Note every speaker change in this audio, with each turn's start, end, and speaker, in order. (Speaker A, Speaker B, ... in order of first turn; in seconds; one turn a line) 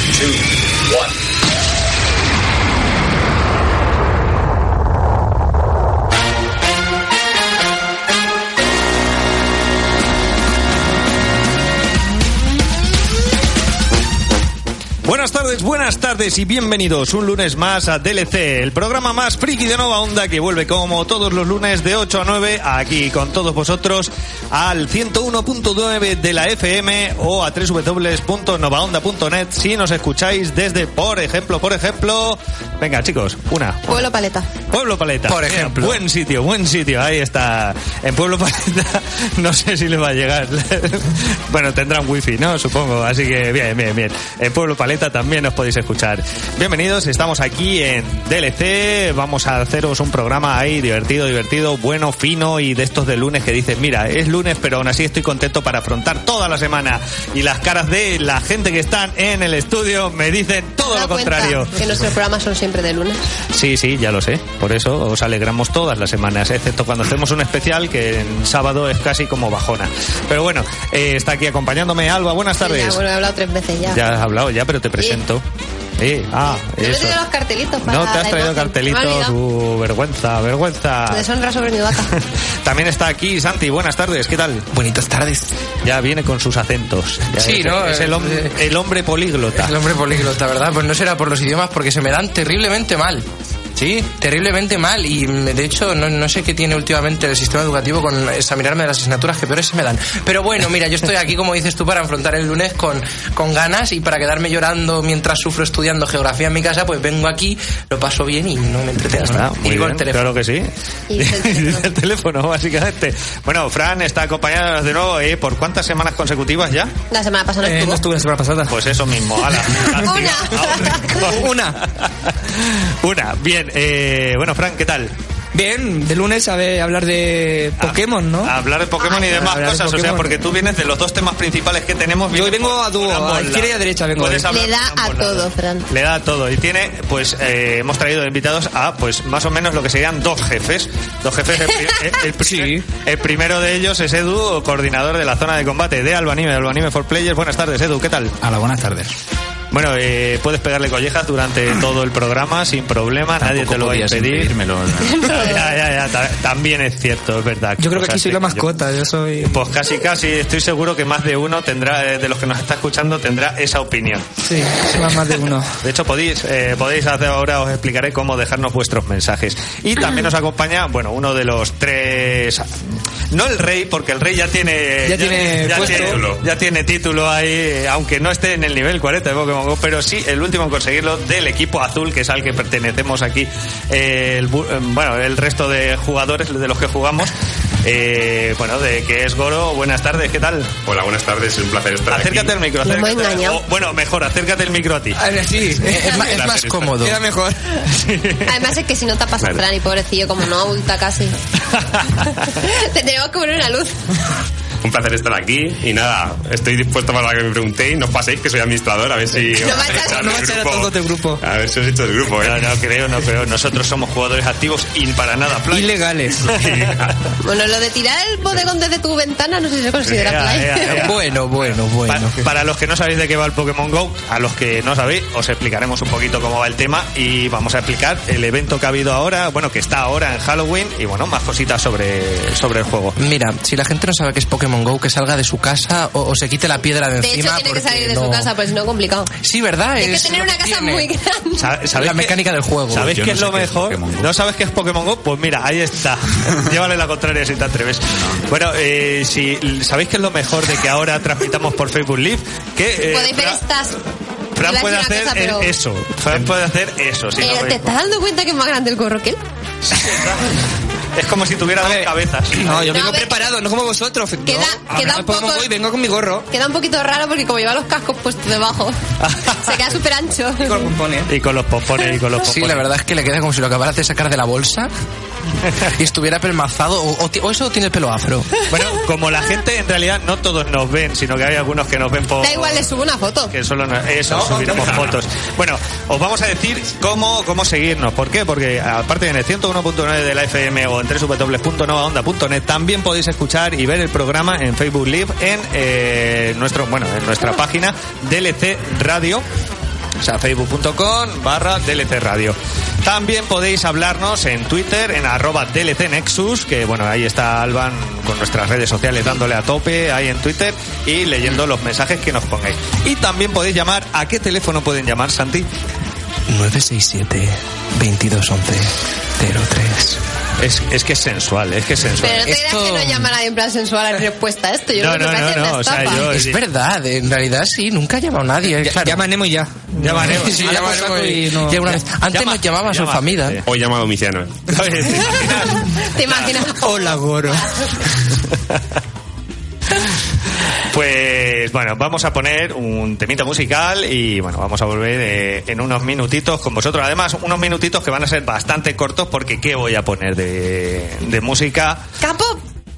Speaker A: 15.1-34.0
Speaker B: 33.9-34.5
Speaker A: 34.7-61.8
Speaker C: 35.2-36.0
Speaker B: 60.8-63.2
Speaker A: 63.5-73.0
Speaker B: 72.6-74.0
Speaker A: 73.9-75.4
Speaker A: 76.0-77.2
Speaker B: 76.8-79.3
Speaker A: 77.9-81.3
Speaker B: 81.1-82.1
Speaker A: 82.6-84.7
Speaker C: 84.7-85.5
Speaker A: 85.8-89.8
Speaker C: 87.3-88.6
Speaker C: 89.5-110.3
Speaker A: 109.1-116.9
Speaker B: 111.1-111.9
Speaker B: 117.1-118.0
Speaker D: 117.6-118.8
Speaker A: 118.7-125.1
Speaker D: 119.6-120.0
Speaker B: 120.0-121.3
Speaker D: 121.2-121.8
Speaker D: 125.5-128.5
Speaker A: 127.8-148.3
Speaker D: 129.1-130.4
Speaker D: 132.3-134.5
Speaker B: 134.4-135.9
Speaker D: 142.4-142.8
Speaker E: 148.4-149.1
Speaker A: 149.7-154.5
Speaker E: 153.4-155.6
Speaker B: 155.0-155.7
Speaker A: 155.2-158.8
Speaker D: 157.8-159.7
Speaker A: 159.4-172.8
Speaker D: 164.4-165.8
Speaker A: 173.3-190.7
Speaker D: 175.0-176.2
Speaker F: 175.7-176.4
Speaker F: 190.8-192.5
Speaker A: 192.1-195.2
Speaker B: 192.8-193.6
Speaker D: 195.2-197.8
Speaker C: 195.8-197.2
Speaker F: 196.3-196.9
Speaker A: 197.9-198.6
Speaker B: 198.4-201.3
Speaker A: 201.7-202.3
Speaker B: 202.4-203.9
Speaker F: 204.8-212.7
Speaker B: 209.6-210.5
Speaker D: 209.8-211.4
Speaker A: 212.4-216.9
Speaker D: 215.7-216.5
Speaker F: 216.5-217.2
Speaker B: 217.4-221.1
Speaker A: 220.1-233.2
Speaker C: 220.8-222.4
Speaker C: 233.2-238.5
Speaker B: 237.2-239.3
Speaker C: 239.4-241.1
Speaker B: 240.0-241.7
Speaker A: 241.6-253.6
Speaker C: 241.9-243.2
Speaker E: 243.0-244.3
Speaker B: 253.1-254.0
Speaker A: 254.6-257.8
Speaker B: 254.6-255.7
Speaker B: 257.4-259.4
Speaker A: 259.9-260.6
Speaker A: 261.1-262.9
Speaker D: 261.8-266.5
Speaker B: 262.8-263.5
Speaker B: 264.4-265.7
Speaker B: 266.5-269.0
Speaker A: 269.2-269.7
Speaker B: 269.5-270.9
Speaker D: 270.6-271.3
Speaker A: 271.3-272.9
Speaker C: 272.4-274.9
Speaker C: 275.9-278.5
Speaker A: 278.7-299.4
Speaker B: 282.4-283.5
Speaker A: 300.2-315.7
Speaker C: 316.5-320.2
Speaker A: 320.6-322.5
Speaker B: 322.2-326.3
Speaker C: 322.3-323.3
Speaker A: 325.0-326.6
Speaker C: 326.2-329.2
Speaker D: 328.8-331.9
Speaker A: 330.0-330.8
Speaker C: 330.0-333.6
Speaker A: 332.3-333.7
Speaker F: 333.6-334.7
Speaker A: 334.7-336.5
Speaker B: 335.9-337.9
Speaker D: 336.8-337.7
Speaker A: 338.5-338.8
Speaker A: 340.8-352.0
Speaker B: 352.2-352.6